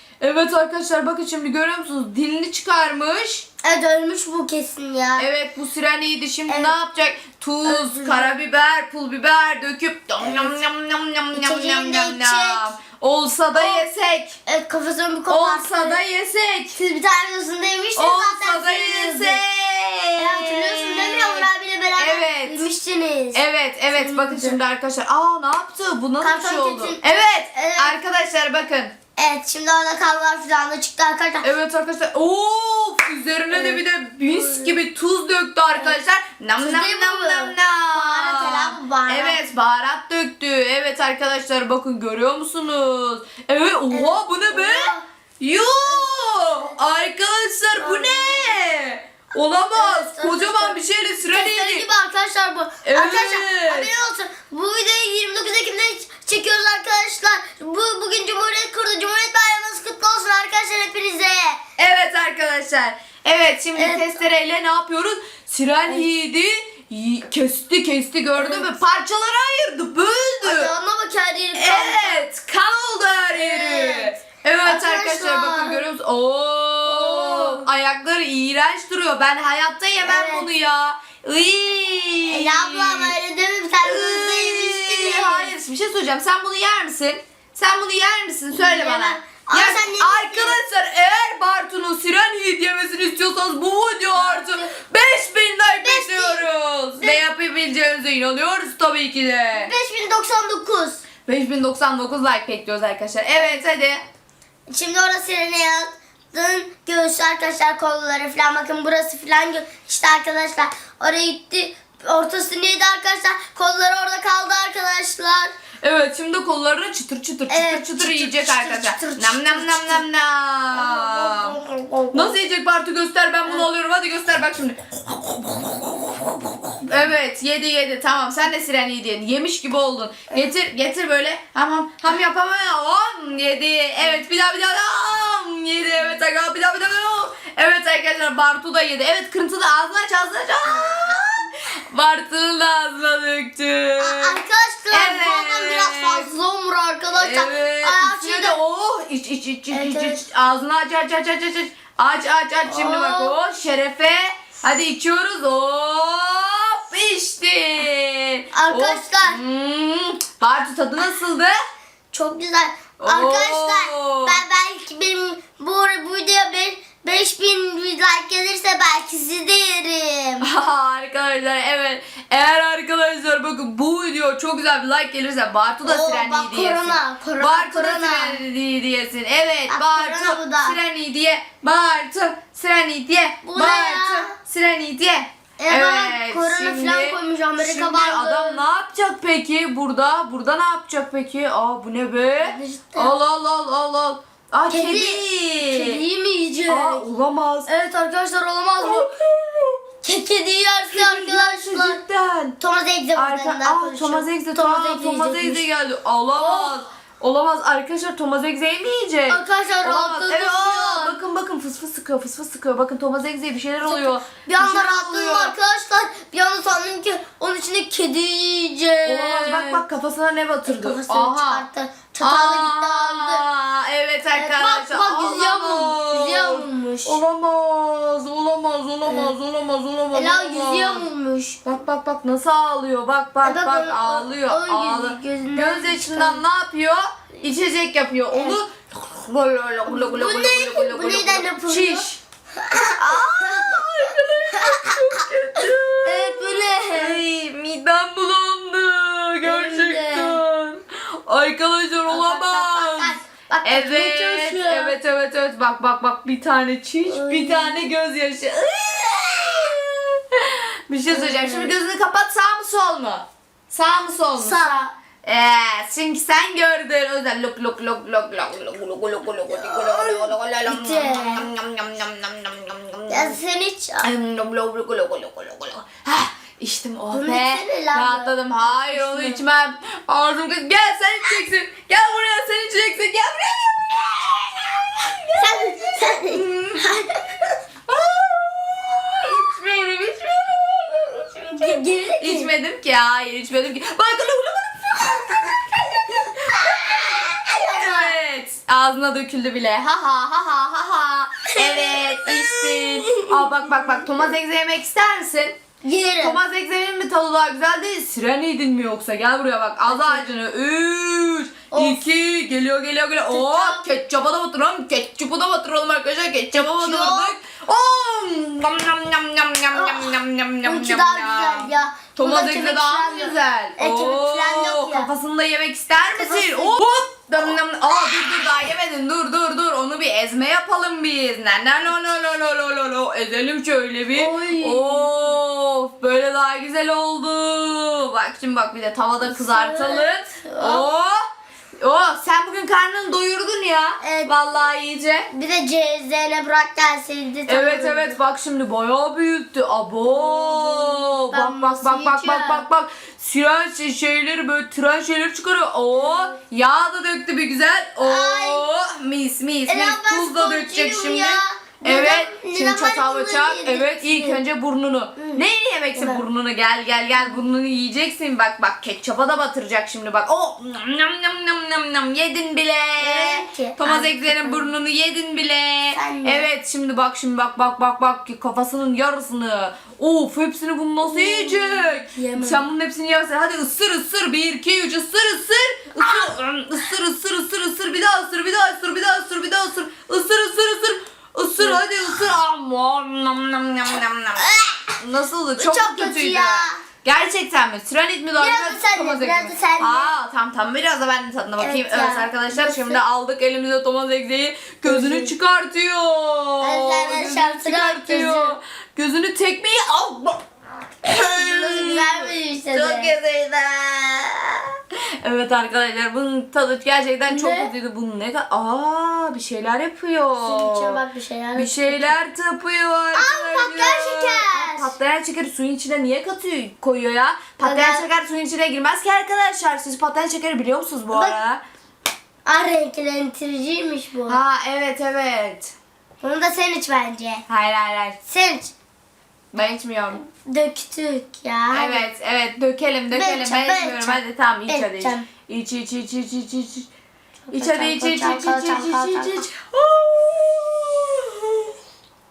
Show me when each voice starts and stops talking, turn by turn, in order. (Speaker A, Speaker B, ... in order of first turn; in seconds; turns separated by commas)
Speaker A: 0.2-3.4, Speaker B: 3.6-5.3, Speaker A: 5.2-14.4, Speaker B: 6.5-6.7, Speaker B: 7.6-8.3, Speaker B: 10.2-10.5, Speaker B: 11.3-12.7, Speaker B: 13.5-13.8, Speaker B: 14.4-16.0, Speaker A: 15.3-16.8, Speaker B: 16.7-19.4, Speaker A: 17.9-22.6, Speaker B: 20.2-24.6, Speaker A: 23.3-28.9, Speaker B: 26.2-28.0, Speaker B: 29.1-31.5, Speaker A: 31.4-51.9, Speaker B: 33.5-34.8, Speaker B: 36.6-39.4, Speaker B: 43.9-45.0, Speaker B: 45.8-46.6, Speaker B: 47.8-48.6, Speaker B: 49.7-61.6, Speaker A: 52.8-53.9, Speaker A: 61.8-70.7, Speaker B: 63.7-64.2, Speaker B: 68.3-68.7, Speaker B: 70.4-72.2, Speaker A: 71.5-83.1, Speaker B: 73.3-74.1, Speaker B: 74.6-75.8, Speaker B: 76.8-77.7, Speaker B: 80.0-80.5, Speaker B: 82.3-85.5, Speaker A: 83.8-99.7, Speaker B: 88.5-90.6, Speaker B: 94.1-94.7, Speaker B: 95.8-96.5, Speaker B: 99.5-101.0, Speaker A: 101.2-104.0, Speaker B: 103.3-103.6, Speaker B: 104.7-115.5, Speaker A: 115.8-121.6, Speaker B: 117.5-120.0, Speaker B: 120.7-122.4, Speaker A: 122.1-146.3, Speaker B: 140.6-141.2, Speaker B: 144.0-148.6, Speaker A: 147.2-161.5, Speaker B: 149.7-150.2, Speaker B: 152.7-153.3, Speaker B: 158.5-159.4, Speaker B: 162.1-170.4, Speaker A: 163.0-164.4, Speaker A: 170.4-196.0, Speaker B: 175.8-178.4, Speaker B: 179.7-180.8, Speaker B: 183.4-184.3, Speaker B: 185.6-188.6, Speaker B: 192.4-193.2, Speaker B: 194.7-197.1, Speaker A: 196.7-197.7, Speaker B: 197.7-199.1, Speaker A: 198.8-199.8, Speaker B: 200.0-202.0, Speaker A: 200.9-202.6, Speaker B: 202.6-205.7, Speaker A: 203.1-215.5, Speaker B: 206.3-206.7, Speaker B: 209.3-211.2, Speaker B: 213.8-219.8, Speaker A: 219.0-221.6, Speaker B: 220.7-223.4, Speaker A: 222.2-231.1, Speaker B: 224.3-227.2, Speaker B: 229.1-229.3, Speaker B: 230.1-231.6, Speaker A: 231.6-242.2, Speaker B: 233.4-236.4, Speaker B: 238.3-238.6, Speaker B: 239.9-242.0, Speaker B: 242.6-243.8, Speaker A: 243.0-273.4, Speaker B: 244.6-245.2, Speaker B: 246.0-247.2, Speaker B: 249.4-250.4, Speaker B: 252.1-255.0, Speaker B: 257.1-257.9, Speaker B: 261.1-261.7, Speaker B: 264.4-264.9, Speaker B: 269.5-271.5, Speaker B: 273.1-274.1, Speaker A: 274.0-286.9, Speaker B: 277.1-279.4, Speaker B: 285.4-287.3, Speaker A: 287.9-305.6, Speaker B: 291.5-292.5, Speaker B: 297.5-298.1, Speaker B: 301.5-304.0, Speaker B: 305.8-306.4, Speaker A: 306.2-341.2, Speaker B: 309.9-310.3, Speaker B: 311.7-312.0, Speaker B: 313.3-313.9, Speaker B: 316.5-317.3, Speaker B: 319.7-325.1, Speaker B: 326.1-326.8, Speaker B: 334.1-335.2, Speaker B: 339.2-340.9, Speaker A: 341.8-345.3, Speaker B: 344.0-344.3, Speaker B: 345.3-348.2, Speaker A: 347.5-410.4, Speaker B: 350.0-352.6, Speaker B: 355.9-356.3, Speaker B: 358.0-358.7, Speaker B: 359.7-364.4, Speaker B: 365.2-365.4, Speaker B: 365.9-366.2, Speaker B: 373.0-374.7, Speaker B: 375.9-376.5, Speaker B: 381.0-382.7, Speaker B: 391.6-391.8, Speaker B: 394.4-395.0, Speaker B: 395.6-396.8, Speaker B: 398.3-400.1, Speaker B: 401.6-403.0, Speaker B: 404.8-405.3, Speaker B: 406.6-408.6, Speaker A: 411.0-414.6, Speaker B: 411.1-413.1, Speaker A: 415.2-421.0, Speaker B: 417.3-417.7, Speaker B: 420.4-422.1, Speaker A: 421.6-431.6, Speaker B: 423.1-424.9, Speaker B: 427.6-428.0, Speaker B: 431.1-431.4, Speaker B: 432.4-434.4, Speaker A: 434.3-435.7, Speaker B: 436.2-437.4, Speaker A: 437.5-438.2, Speaker B: 438.2-438.7, Speaker A: 439.5-440.2, Speaker B: 440.2-442.1, Speaker A: 441.7-446.9, Speaker B: 443.1-445.3, Speaker B: 447.5-449.5, Speaker A: 447.5-451.7